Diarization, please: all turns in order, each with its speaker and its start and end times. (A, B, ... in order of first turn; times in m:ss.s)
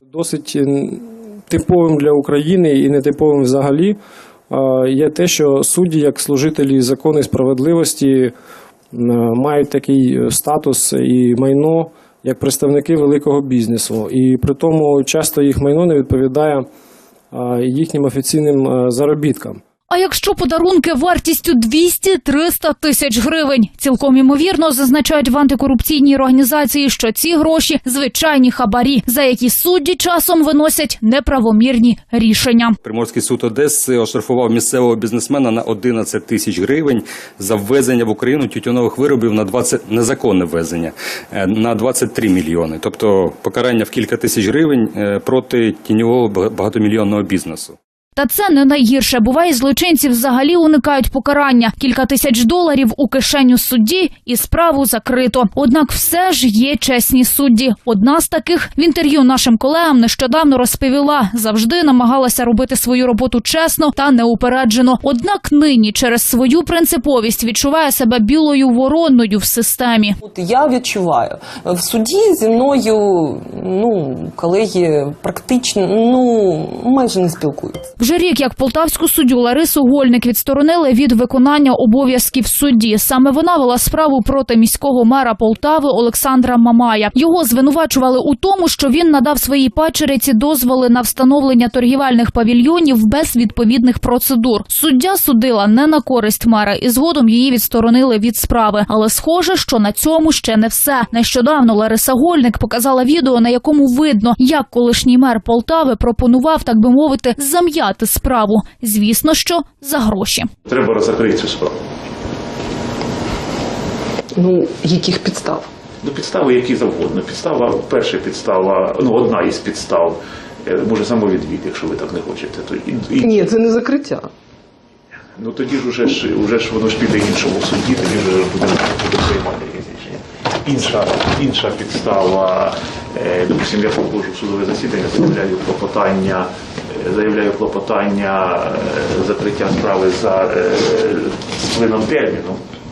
0:00.1-0:04.0 A
0:04.5-0:08.3 A
0:08.9-0:16.6 A
0:17.3-0:19.6 A
0:19.9-0:32.8 B
0:32.8-0:47.8 C
0:48.2-1:10.2 B
1:10.2-1:17.9 D
1:18.0-1:50.5 B
1:50.6-1:51.8 E
1:54.3-1:55.7 D
1:56.0-2:03.5 E
2:03.2-2:04.3 D
2:05.4-2:22.6 E